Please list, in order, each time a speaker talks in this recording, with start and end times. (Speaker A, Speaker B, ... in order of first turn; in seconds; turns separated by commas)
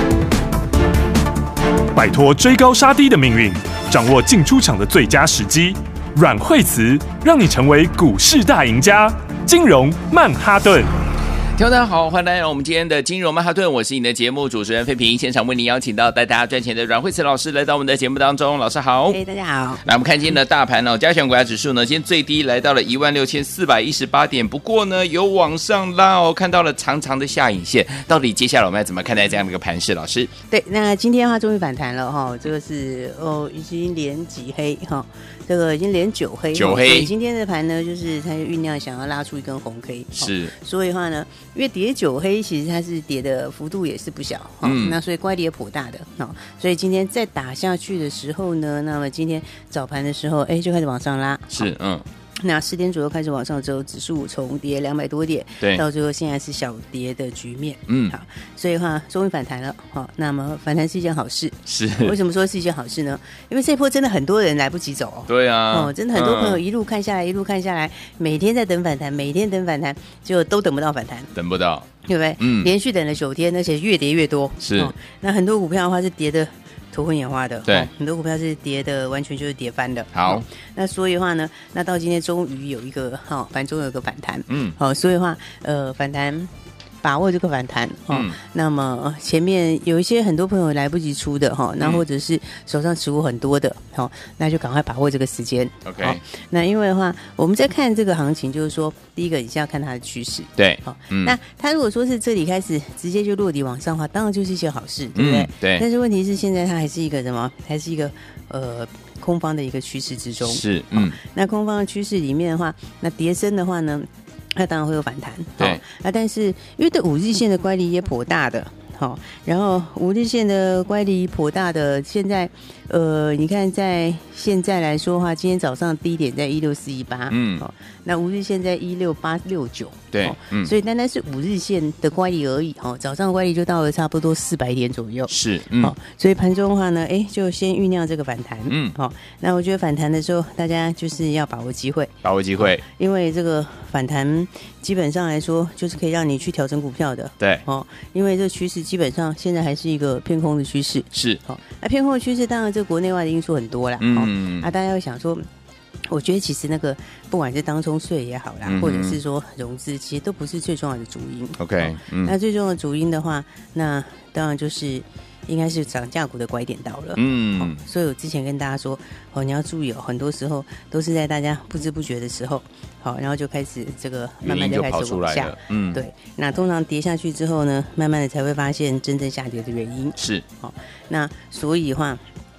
Speaker A: 1.9-10.9, Speaker B: 11.6-19.2, Speaker C: 19.1-19.8, Speaker B: 19.8-30.3, Speaker C: 30.5-51.7, Speaker B: 36.5-37.1, Speaker B: 40.1-40.5, Speaker B: 44.6-45.0, Speaker B: 51.5-52.0, Speaker C: 52.4-71.3, Speaker B: 57.9-58.1, Speaker B: 61.6-62.1, Speaker B: 65.3-66.6, Speaker B: 71.3-71.9, Speaker C: 72.0-86.5, Speaker B: 72.4-72.7, Speaker B: 74.6-74.9, Speaker B: 80.1-80.4, Speaker B: 84.5-84.8, Speaker C: 87.0-155.4, Speaker B: 88.1-88.3, Speaker B: 95.8-96.2, Speaker B: 100.6-101.3, Speaker B: 105.1-105.8, Speaker B: 110.4-111.2, Speaker B: 127.3-127.6, Speaker B: 130.1-130.7, Speaker B: 135.3-135.9, Speaker B: 138.7-138.9, Speaker B: 142.2-142.8, Speaker B: 147.4-147.6, Speaker B: 151.1-151.4, Speaker B: 154.0-154.7, Speaker C: 156.1-182.2, Speaker B: 158.6-159.2, Speaker B: 161.6-162.3, Speaker B: 167.2-167.8, Speaker B: 174.4-176.0, Speaker B: 180.2-180.4